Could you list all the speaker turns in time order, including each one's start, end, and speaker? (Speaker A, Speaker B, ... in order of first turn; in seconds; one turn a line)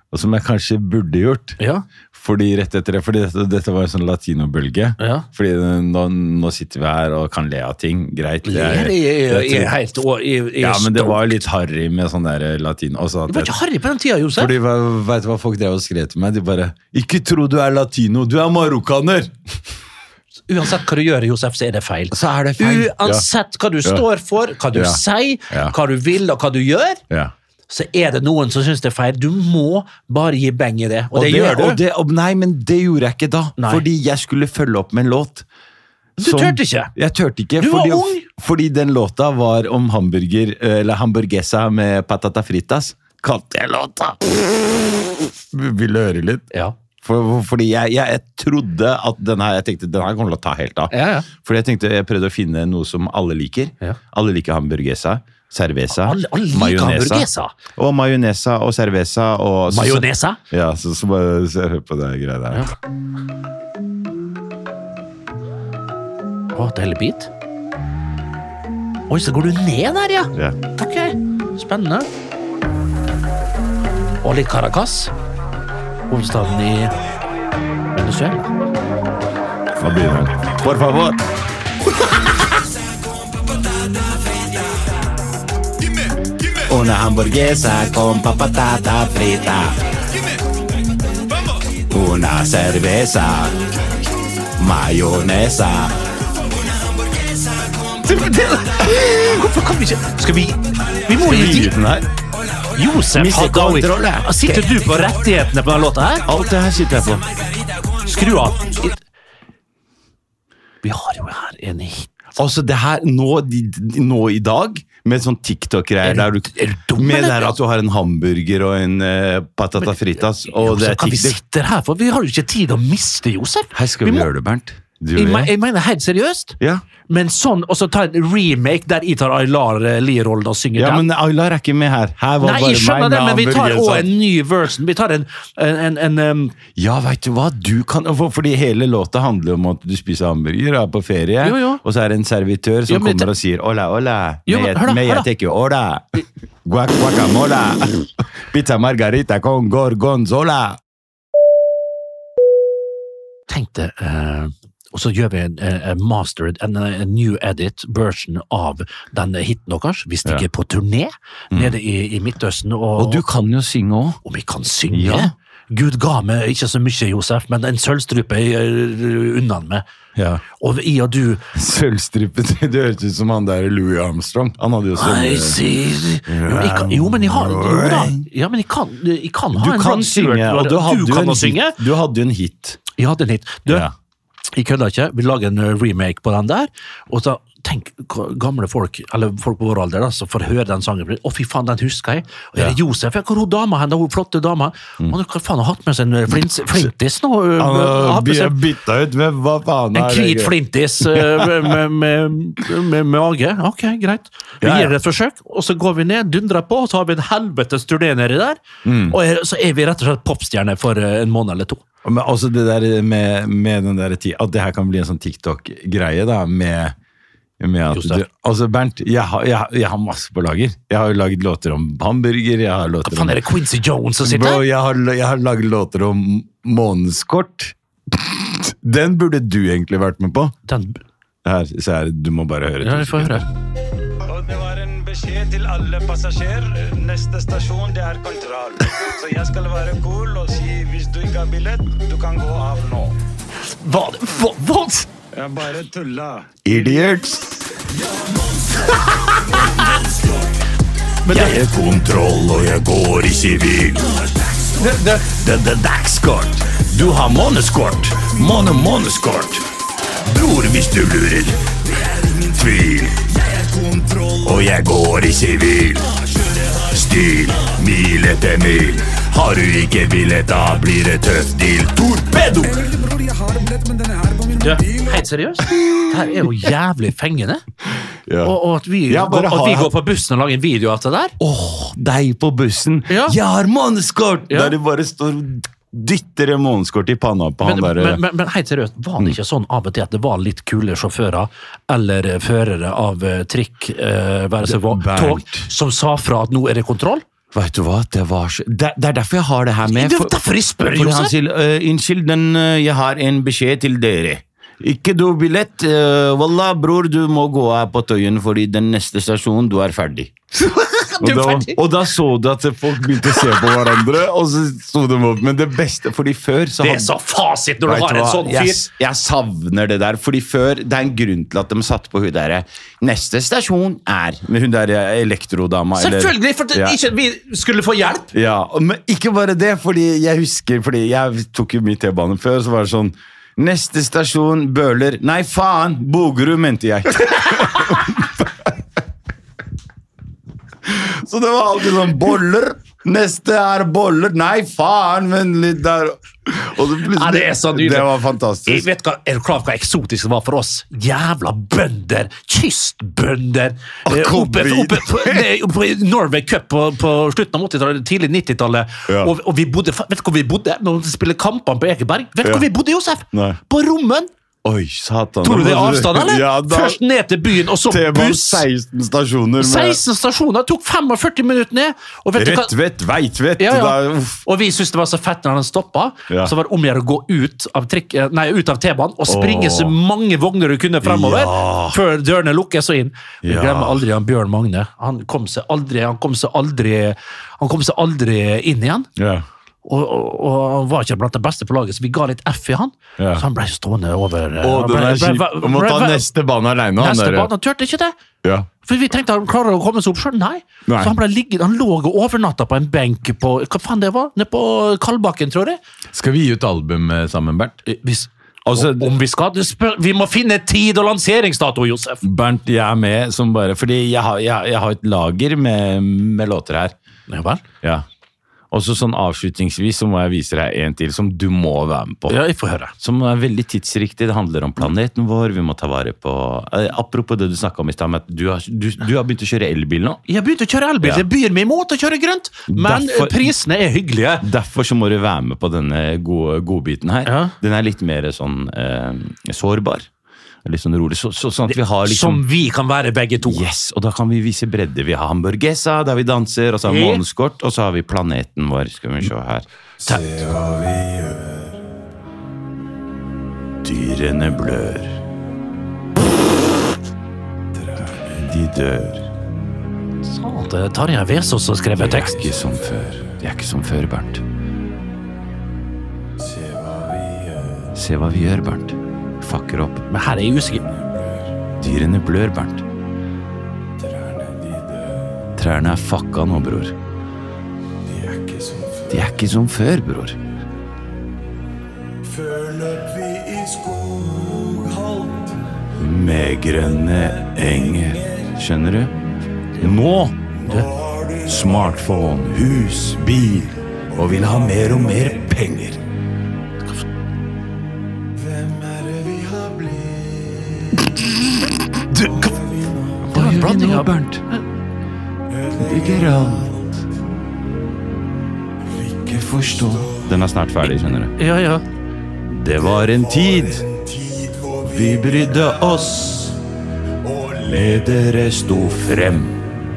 Speaker A: 0.1-1.6
Speaker B: 1.6-1.9
Speaker A: 2.1-9.7
Speaker B: 5.0-5.3
Speaker B: 8.5-11.4
Speaker A: 10.6-13.5
Speaker B: 13.3-14.5
Speaker A: 14.3-19.4
Speaker B: 20.5-27.0
Speaker A: 22.1-23.2
Speaker A: 24.7-25.8
Speaker B: 27.7-31.8
Speaker A: 31.1-35.5
Speaker B: 33.6-33.8
Speaker B: 36.2-36.9
Speaker A: 36.2-44.5
Speaker B: 37.6-38.3
Speaker A: 45.2-46.5
Speaker A: 47.0-62.6
Speaker B: 50.9-51.3
Speaker B: 55.9-57.5
Speaker B: 59.7-60.4
Speaker B: 66.5-67.3
Speaker B: 69.1-72.1
Speaker B: 74.2-75.1
Speaker B: 76.1-76.9
Speaker B: 77.9-78.5
Speaker A: 79.8-81.2
Speaker A: 86.6-89.8
Speaker A: 91.9-93.6
Speaker A: 94.6-96.0
Speaker B: 98.0-101.7
Speaker A: 101.2-102.1
Speaker B: 102.7-106.3
Speaker A: 103.1-104.7
Speaker A: 106.2-107.3
Speaker B: 108.0-109.0
Speaker B: 110.8-112.3
Speaker A: 112.4-121.4
Speaker B: 116.0-117.6
Speaker B: 120.5-124.3
Speaker A: 123.7-125.5
Speaker B: 125.2-126.6
Speaker A: 126.6-126.8
Speaker B: 127.1-131.1
Speaker A: 130.8-134.1
Speaker B: 132.4-136.6
Speaker A: 136.8-150.8
Speaker B: 141.4-141.8
Speaker B: 142.9-143.3
Speaker B: 144.5-145.3
Speaker B: 153.5-163.2
Speaker A: 163.0-164.2
Speaker B: 164.2-169.8
Speaker A: 164.9-165.3
Speaker A: 170.2-170.4
Speaker B: 170.5-171.5
Speaker A: 171.5-175.6
Speaker B: 175.0-181.8
Speaker A: 176.3-178.3
Speaker A: 179.5-182.8
Speaker B: 183.0-183.9
Speaker A: 183.7-183.9
Speaker B: 184.5-198.6
Speaker A: 197.6-201.8
Speaker B: 199.9-211.8
Speaker A: 204.6-204.9
Speaker A: 208.8-209.2
Speaker A: 212.0-216.9
Speaker A: 217.6-223.4
Speaker B: 217.9-218.2
Speaker B: 223.0-224.6
Speaker A: 224.2-230.5
Speaker B: 230.7-231.0
Speaker A: 231.4-233.5
Speaker B: 232.8-233.5
Speaker C: 234.3-243.1
Speaker B: 243.7-245.1
Speaker C: 245.4-246.5
Speaker A: 246.6-247.7
Speaker B: 251.2-251.6
Speaker A: 251.3-259.6
Speaker B: 254.8-255.2
Speaker A: 260.2-273.1
Speaker B: 274.6-277.6
Speaker A: 275.7-276.7
Speaker A: 278.3-278.6
Speaker B: 278.4-281.4
Speaker A: 279.1-279.9
Speaker A: 281.4-288.2
Speaker B: 283.1-283.4
Speaker B: 284.5-284.8
Speaker B: 287.6-297.2
Speaker A: 294.6-295.7
Speaker A: 297.5-310.3
Speaker B: 299.9-301.3
Speaker B: 310.6-311.8
Speaker A: 311.2-317.1
Speaker B: 313.2-313.6
Speaker B: 316.8-318.9
Speaker A: 317.9-327.0
Speaker B: 326.0-328.3
Speaker A: 328.3-338.7
Speaker A: 340.9-348.9
Speaker B: 347.1-348.1
Speaker B: 348.7-364.3
Speaker A: 354.1-355.5
Speaker A: 359.1-359.3
Speaker A: 363.3-363.6
Speaker A: 364.6-367.0
Speaker B: 365.4-368.7
Speaker A: 367.9-370.0
Speaker B: 369.6-372.7
Speaker A: 372.4-374.4
Speaker B: 373.6-389.1
Speaker A: 379.3-379.9
Speaker A: 381.0-382.0
Speaker A: 383.4-384.1
Speaker A: 389.2-389.4
Speaker B: 389.8-396.3
Speaker A: 393.2-393.4
Speaker A: 394.6-397.5
Speaker B: 397.0-398.1
Speaker B: 398.8-405.8
Speaker A: 400.9-401.1
Speaker A: 406.1-407.8
Speaker B: 407.9-412.2
Speaker A: 408.7-409.1
Speaker A: 412.2-416.9
Speaker B: 417.3-417.6
Speaker A: 418.7-422.4
Speaker B: 422.3-422.9
Speaker A: 423.0-430.2
Speaker B: 430.3-434.5
Speaker A: 432.7-433.5
Speaker A: 434.4-440.1
Speaker B: 437.2-437.5
Speaker A: 440.6-442.4
Speaker B: 441.7-443.6
Speaker A: 443.4-451.6
Speaker B: 446.9-447.2
Speaker B: 450.0-450.4
Speaker A: 453.8-455.2
Speaker A: 457.8-459.3
Speaker B: 460.2-462.5
Speaker A: 462.0-464.4
Speaker C: 466.7-467.8
Speaker A: 467.8-470.1
Speaker B: 470.1-470.9
Speaker A: 470.9-472.9
Speaker C: 474.3-474.7
Speaker A: 475.6-477.0
Speaker C: 478.4-478.9
Speaker A: 479.1-480.4
Speaker C: 483.5-485.4
Speaker A: 486.0-489.1
Speaker A: 489.8-496.0
Speaker B: 490.6-490.9
Speaker A: 498.6-500.2
Speaker A: 500.9-501.2
Speaker B: 502.1-502.6
Speaker A: 503.0-504.4
Speaker B: 503.3-504.6
Speaker A: 505.7-506.9
Speaker A: 509.0-511.4
Speaker B: 511.4-511.8
Speaker A: 512.4-516.6
Speaker A: 517.3-519.6